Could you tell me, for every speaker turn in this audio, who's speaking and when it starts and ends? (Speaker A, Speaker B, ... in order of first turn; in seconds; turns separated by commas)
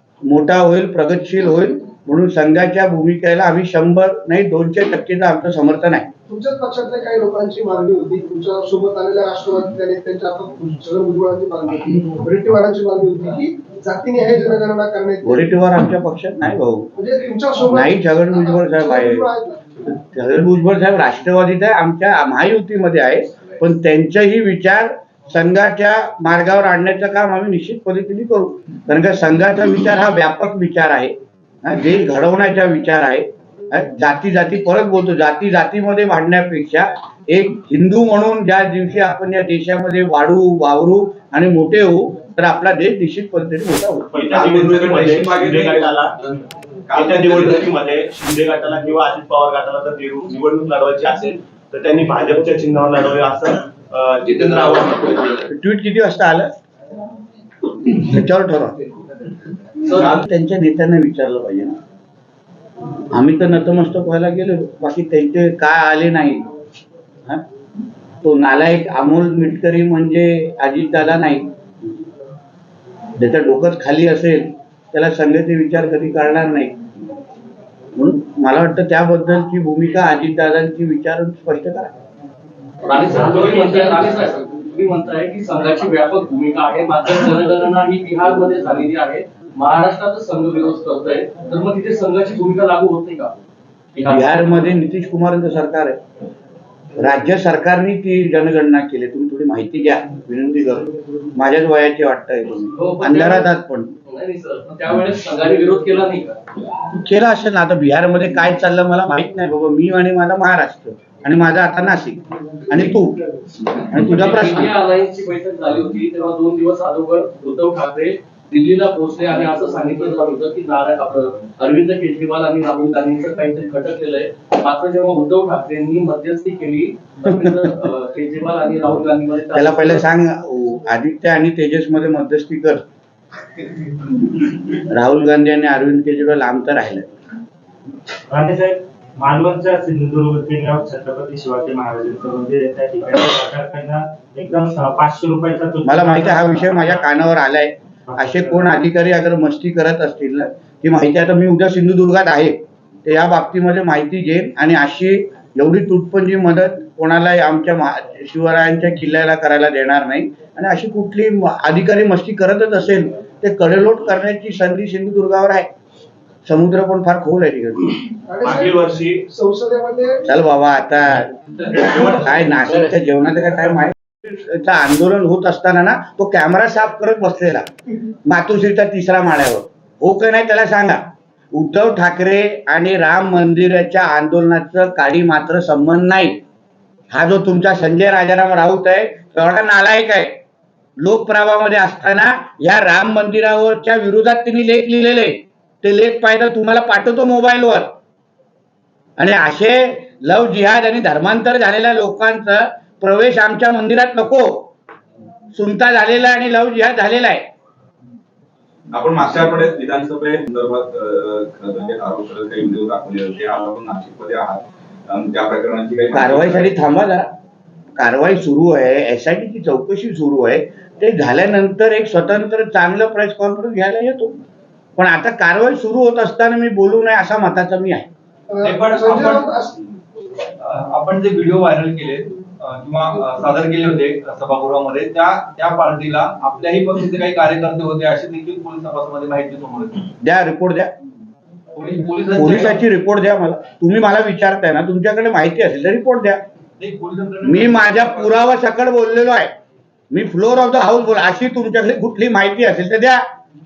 Speaker A: 0.2-6.1, Speaker B: 6.3-15.5, Speaker A: 15.2-16.9, Speaker B: 17.0-19.8, Speaker A: 17.7-19.3, Speaker A: 19.9-44.1, Speaker C: 44.1-46.1, Speaker D: 44.2-46.0, Speaker D: 46.9-47.9, Speaker C: 47.0-55.1, Speaker E: 54.2-54.9, Speaker A: 55.5-56.5, Speaker A: 57.9-58.8, Speaker A: 59.9-61.7, Speaker A: 63.1-66.5, Speaker A: 68.2-71.5, Speaker A: 73.2-76.8, Speaker A: 78.0-81.9, Speaker F: 82.8-93.3, Speaker G: 83.1-84.2, Speaker E: 83.3-83.7, Speaker F: 94.0-94.2, Speaker A: 94.1-96.0, Speaker A: 97.0-103.9, Speaker F: 102.7-103.4, Speaker F: 104.1-106.4, Speaker A: 106.9-113.3, Speaker A: 113.9-114.7, Speaker F: 114.1-130.0, Speaker A: 129.5-132.8, Speaker A: 134.7-137.1, Speaker G: 138.3-147.1, Speaker A: 145.8-165.7, Speaker G: 148.1-148.6, Speaker A: 166.4-168.0, Speaker B: 168.3-170.2, Speaker C: 168.4-169.2, Speaker A: 170.3-177.7, Speaker A: 178.2-186.4, Speaker A: 187.1-190.3, Speaker A: 191.0-197.9, Speaker A: 199.2-204.7, Speaker A: 205.5-207.4, Speaker D: 208.9-216.7, Speaker A: 216.1-217.3, Speaker A: 218.0-224.3, Speaker A: 225.0-228.1, Speaker B: 228.5-229.7, Speaker E: 228.6-229.4, Speaker E: 230.7-240.0, Speaker A: 240.2-240.9, Speaker E: 241.7-242.7, Speaker A: 242.3-246.4, Speaker E: 246.8-248.3, Speaker A: 247.4-249.5, Speaker A: 250.1-253.2